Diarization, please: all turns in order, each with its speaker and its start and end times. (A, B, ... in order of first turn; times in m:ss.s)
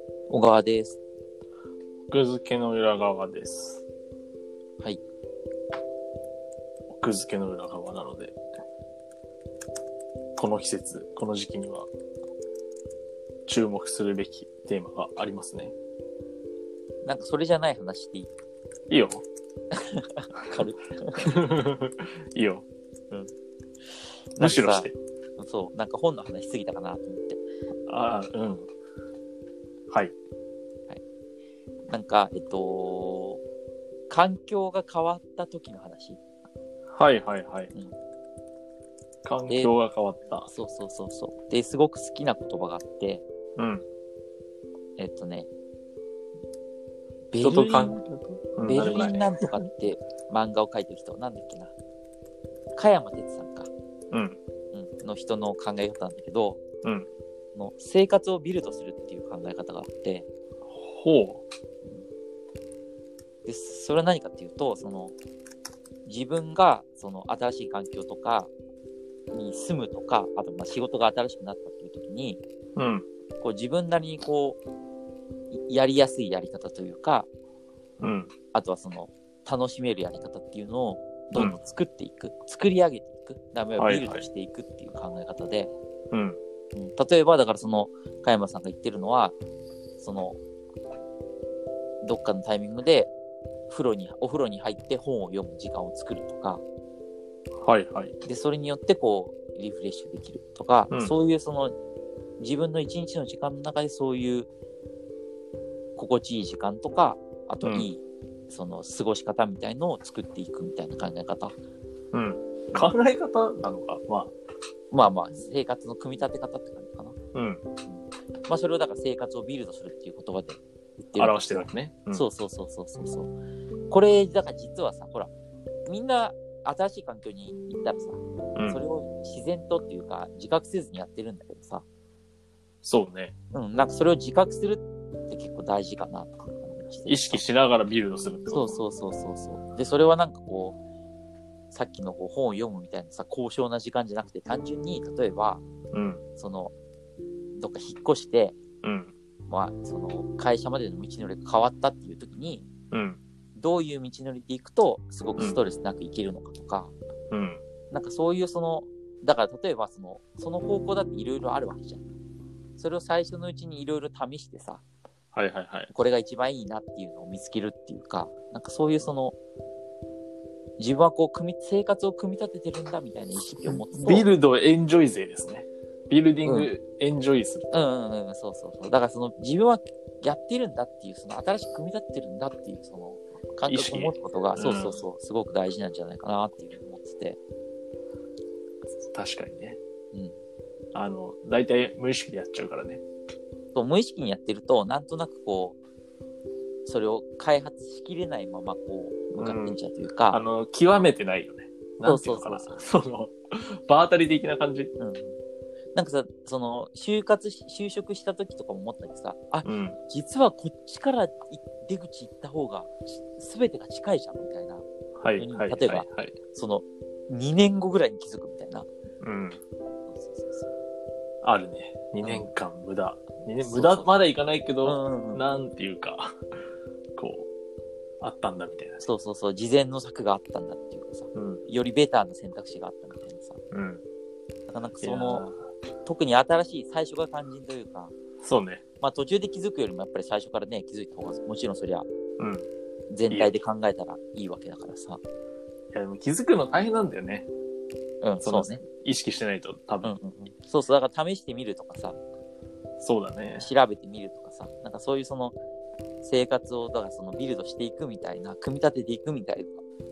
0:00.3-0:01.0 A
0:02.1-0:03.8 B
0:06.9-0:08.4 B
0:10.4-0:11.9 B
0:13.5-0:15.7 B
0:17.0-0:18.3 A
0:18.9-0:19.2 B
0:19.7-0:21.3 A
0:21.2-0:22.6 B
0:24.4-0:27.4 A
0:24.4-0:24.9 B
0:27.9-0:28.7 B
0:31.9-0:33.4 A
0:34.1-0:36.2 A
0:36.9-0:37.7 B
0:39.2-0:40.5 B
0:39.5-0:39.7 A
0:40.5-0:43.2 A
0:43.6-0:43.8 B
0:45.0-0:45.5 A
0:47.3-0:48.0 A
0:47.4-0:49.3 B
0:48.6-0:51.7 A
0:52.8-0:53.7 A
0:54.1-0:54.4 B
0:54.7-0:56.6 A
0:57.5-1:00.3 A
1:00.7-1:01.4 B
1:03.4-1:05.1 A
1:06.0-1:08.5 A
1:09.3-1:12.4 A
1:12.8-1:13.0 B
1:13.4-1:14.6 A
1:15.5-1:17.3 A
1:18.0-1:18.3 B
1:18.5-1:25.7 A
1:23.8-1:24.2 B
1:26.1-1:26.4 B
1:26.7-1:29.4 A
1:30.0-1:30.4 A
1:32.0-1:33.1 A
1:33.7-1:36.6 A
1:37.6-1:38.2 B
1:38.2-1:41.7 A
1:40.9-1:41.1 B
1:42.4-1:44.5 A
1:46.0-1:51.5 A
1:47.6-1:47.9 B
1:52.1-1:54.3 B
1:54.9-1:57.2 A
1:57.3-1:57.6 B
1:57.8-2:03.3 A
2:01.2-2:02.2 B
2:03.9-2:05.3 A
2:05.8-2:11.8 A
2:08.5-2:08.8 B
2:12.8-2:13.3 B
2:13.5-2:17.4 A
2:17.1-2:18.8 B
2:18.5-2:20.8 A
2:21.7-2:25.6 A
2:25.9-2:26.2 B
2:26.4-2:26.7 A
2:27.6-2:28.6 A
2:28.8-2:29.1 B
2:29.5-2:32.7 A
2:32.9-2:33.2 B
2:33.6-2:36.9 A
2:37.3-2:37.6 B
2:37.9-2:42.0 A
2:42.8-2:44.8 A
2:45.3-2:45.9 B
2:45.9-2:49.4 A
2:50.8-2:54.3 A
2:53.9-2:57.7 B
2:56.4-2:56.7 A
2:57.7-3:07.4 A
3:03.6-3:05.0 B
3:09.1-3:09.8 B
3:10.9-3:13.0 B
3:13.7-3:15.8 A
3:16.8-3:20.4 A
3:19.4-3:19.8 B
3:20.3-3:24.9 B
3:22.0-3:22.8 A
3:25.0-3:25.4 A
3:25.9-3:38.9 A
3:29.6-3:30.0 B
3:35.2-3:36.4 B
3:39.2-3:39.6 B
3:40.1-3:40.7 A
3:41.4-3:46.4 B
3:42.2-3:42.5 A
3:43.6-3:44.1 A
3:44.8-3:45.4 A
3:47.2-3:47.5 B
3:48.2-3:49.0 B
3:49.0-3:53.6 A
3:51.3-3:51.6 B
3:53.7-3:54.0 B
3:54.7-3:55.5 A
3:55.0-3:55.6 B
3:56.0-3:58.1 A
3:58.4-3:58.8 B
3:59.0-4:02.1 A
4:02.4-4:02.7 B
4:03.1-4:05.2 A
4:03.3-4:03.6 B
4:05.9-4:07.5 B
4:08.2-4:08.8 A
4:08.4-4:10.1 B
4:10.0-4:12.2 A
4:13.0-4:13.7 B
4:13.6-4:15.5 A
4:16.2-4:19.8 A